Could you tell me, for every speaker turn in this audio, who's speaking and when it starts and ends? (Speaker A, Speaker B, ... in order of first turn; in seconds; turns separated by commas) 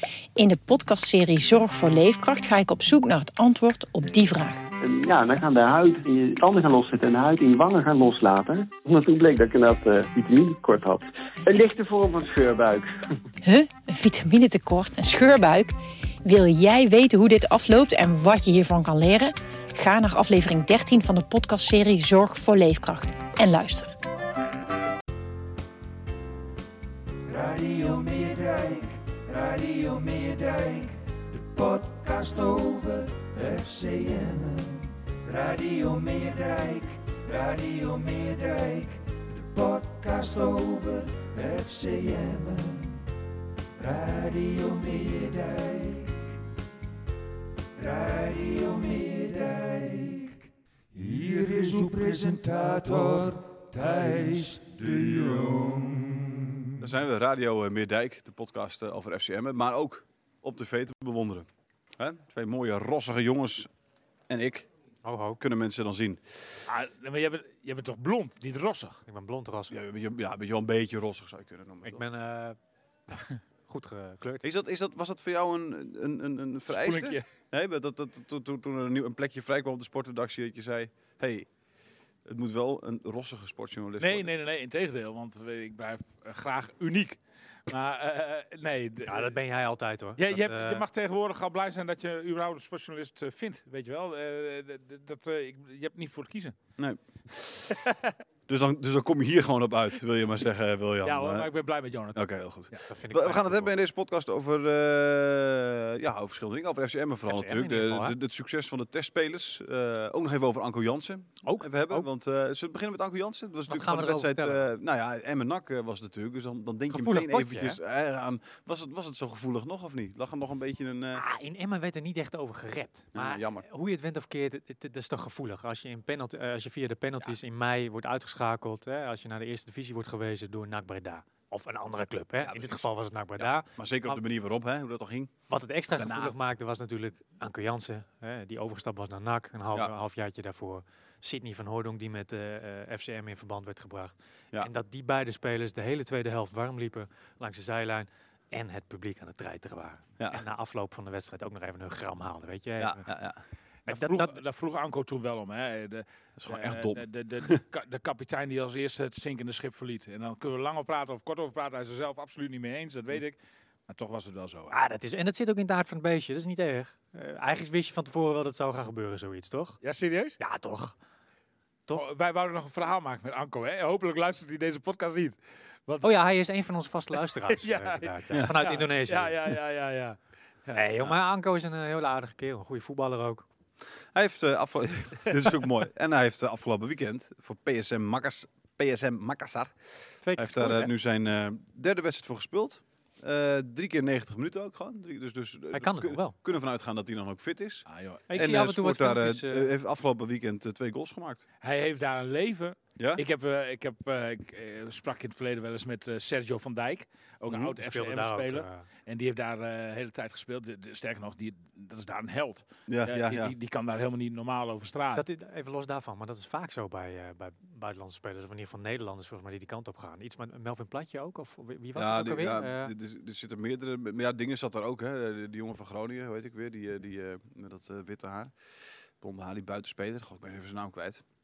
Speaker A: 0.4-4.6, Speaker B: 4.8-12.9, Speaker A: 13.4-24.0, Speaker C: 27.3-43.0, Speaker C: 43.8-46.3, Speaker C: 47.8-56.7, Speaker D: 56.8-63.7, Speaker D: 64.3-64.7, Speaker E: 65.0-65.4, Speaker D: 65.4-66.4, Speaker F: 66.7-69.0, Speaker E: 69.1-69.8, Speaker D: 69.7-72.0, Speaker E: 71.9-72.6, Speaker E: 73.1-74.5, Speaker D: 74.4-81.5, Speaker F: 76.7-77.2, Speaker D: 82.2-84.3, Speaker F: 84.0-89.3, Speaker E: 89.1-90.8, Speaker F: 90.2-96.5, Speaker D: 96.8-97.8, Speaker F: 97.7-98.2, Speaker D: 98.5-101.5, Speaker F: 101.0-102.8, Speaker D: 102.1-121.2, Speaker E: 102.8-103.8, Speaker E: 107.3-108.2, Speaker E: 111.4-112.1, Speaker E: 113.7-114.7, Speaker E: 116.9-117.8, Speaker E: 121.2-134.2, Speaker D: 123.1-123.7, Speaker D: 132.4-132.9, Speaker D: 133.4-135.3, Speaker E: 135.5-153.1, Speaker D: 136.0-136.3, Speaker D: 152.8-153.4, Speaker F: 153.9-163.4, Speaker E: 153.9-154.4, Speaker D: 156.4-157.6, Speaker F: 163.9-164.7, Speaker E: 164.7-169.8, Speaker F: 169.8-170.4, Speaker E: 170.4-171.0, Speaker F: 171.9-176.1, Speaker E: 176.0-179.4, Speaker F: 177.5-180.9, Speaker D: 178.3-178.6, Speaker E: 180.7-183.4, Speaker D: 184.1-201.4, Speaker E: 190.2-190.9, Speaker E: 195.7-196.4, Speaker F: 197.9-198.2, Speaker E: 198.3-199.7, Speaker F: 201.6-215.2, Speaker D: 203.0-203.2, Speaker E: 207.8-208.8, Speaker D: 212.9-213.6, Speaker E: 215.2-222.9, Speaker D: 221.9-228.6, Speaker D: 229.2-231.2